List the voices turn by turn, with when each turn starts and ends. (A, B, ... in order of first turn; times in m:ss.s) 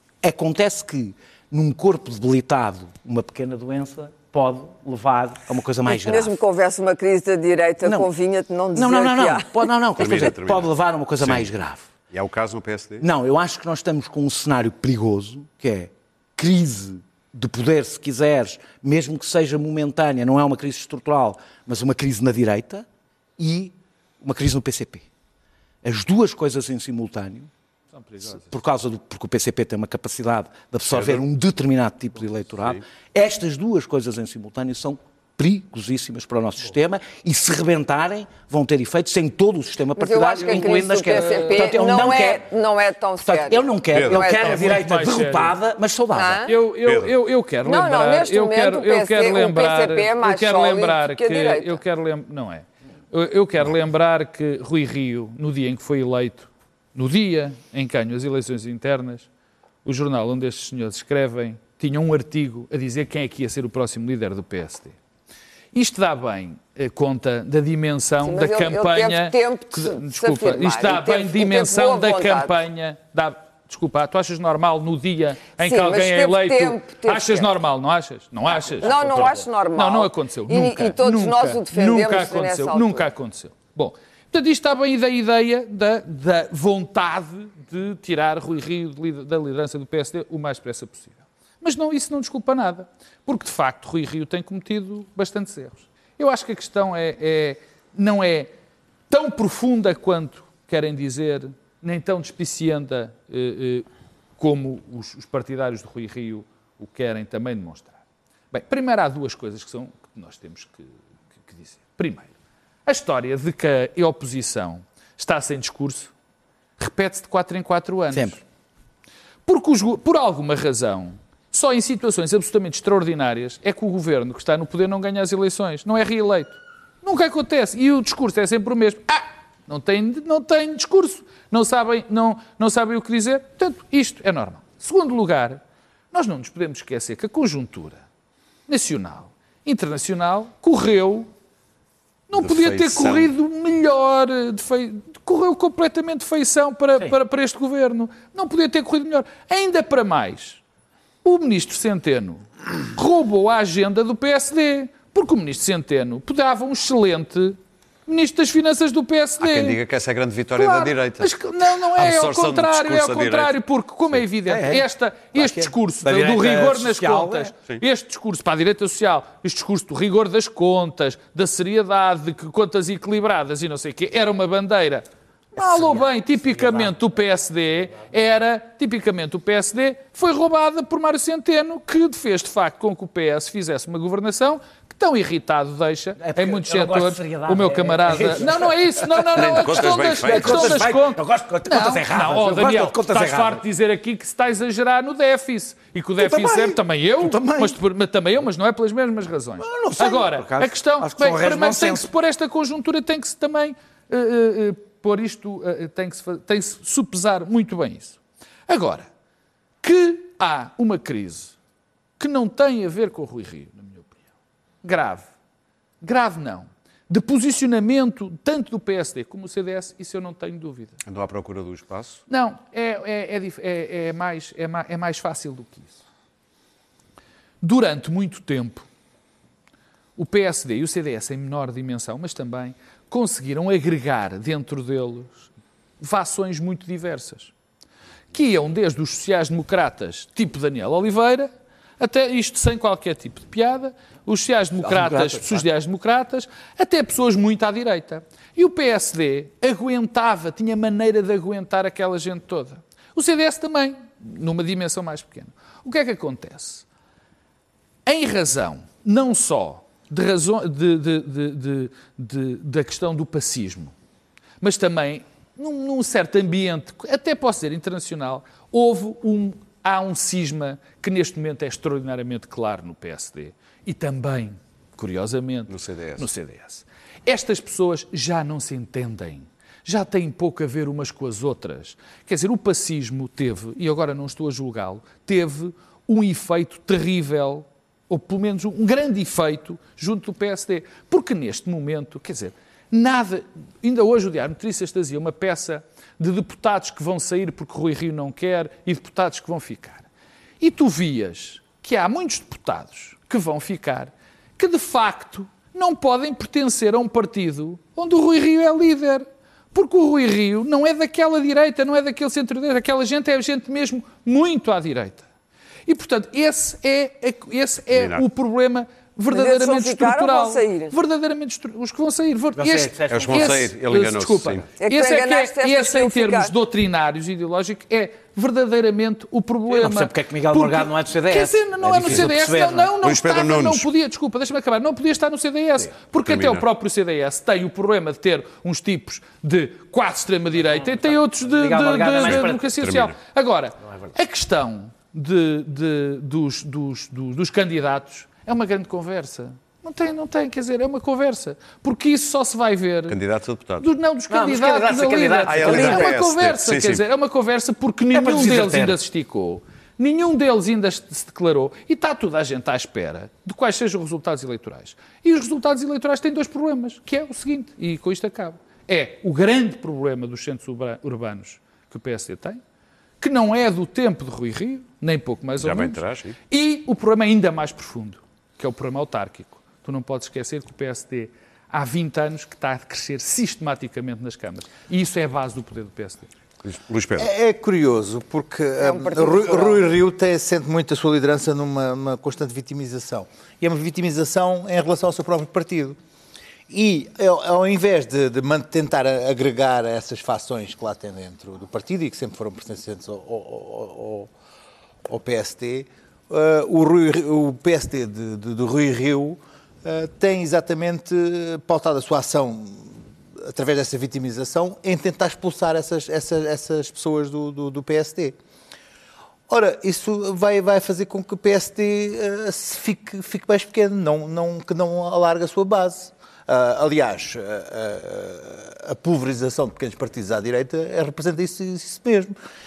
0:00.2-0:06.4 A
0:05.9-0:10.3 B
0:07.8-0:08.1 A
0:08.8-0:11.9 A
0:10.0-0:11.5 C
0:12.1-0:13.1 C
0:13.0-0:22.9 A
0:23.4-0:25.1 A
0:25.8-0:27.5 A
0:27.9-0:28.6 D
0:28.3-0:42.5 A
0:30.9-0:31.2 C
0:40.0-0:44.7 B
0:40.4-0:41.8 D
0:43.2-0:46.4 A
0:43.9-0:44.2 C
0:44.4-0:45.6 D
0:46.1-0:46.5 B
0:46.5-0:59.3 D
0:47.6-0:51.8 B
0:59.8-1:05.0 D
1:05.7-1:38.5 D
1:08.2-1:12.6 B
1:15.6-1:17.5 B
1:18.5-1:23.1 B
1:39.1-1:43.9 D
1:44.4-1:48.0 D
1:48.5-1:52.3 D
1:52.9-1:56.1 D
1:56.8-1:58.4 D
1:58.1-1:58.4 A
1:59.5-2:18.0 D
2:18.7-2:21.3 D
2:22.3-2:30.6 D
2:22.3-2:23.3 C
2:31.2-2:39.8 D
2:39.4-2:43.6 C
2:40.6-3:29.1 D
2:44.5-2:47.5 A
2:55.6-2:57.0 A
3:06.2-3:13.6 A
3:09.4-3:10.8 C
3:16.2-3:17.8 A
3:19.6-3:22.1 A
3:29.8-3:31.6 D
3:32.2-3:34.2 D
3:34.8-3:35.3 D
3:36.0-3:41.0 D
3:41.0-3:42.2 C
3:42.3-3:46.0 D
3:47.6-3:48.9 D
3:50.2-3:57.5 D
3:58.3-4:16.9 D
4:04.8-4:05.6 A
4:18.1-4:23.9 D
4:24.6-5:00.1 D
4:35.7-4:36.3 C
5:00.6-5:15.3 D
5:15.9-5:53.2 D
5:17.9-5:18.2 C
5:19.3-5:21.0 B
5:22.6-5:23.7 A
5:23.1-5:24.7 C
5:24.8-5:26.5 B
5:29.7-5:32.9 A
5:33.0-5:33.9 C
5:36.2-5:36.7 C
5:40.6-5:42.6 A
5:42.2-5:43.2 C
5:53.1-5:53.8 C
5:53.8-6:12.6 D
5:54.3-5:56.1 A
5:55.5-5:57.0 C
5:58.1-5:59.0 A
6:13.2-6:26.3 D
6:15.6-6:16.4 C
6:26.6-6:27.3 C
6:27.2-6:36.0 E
6:28.8-6:29.9 B
6:36.7-6:44.3 E
6:45.1-6:58.4 E
6:59.5-7:12.4 E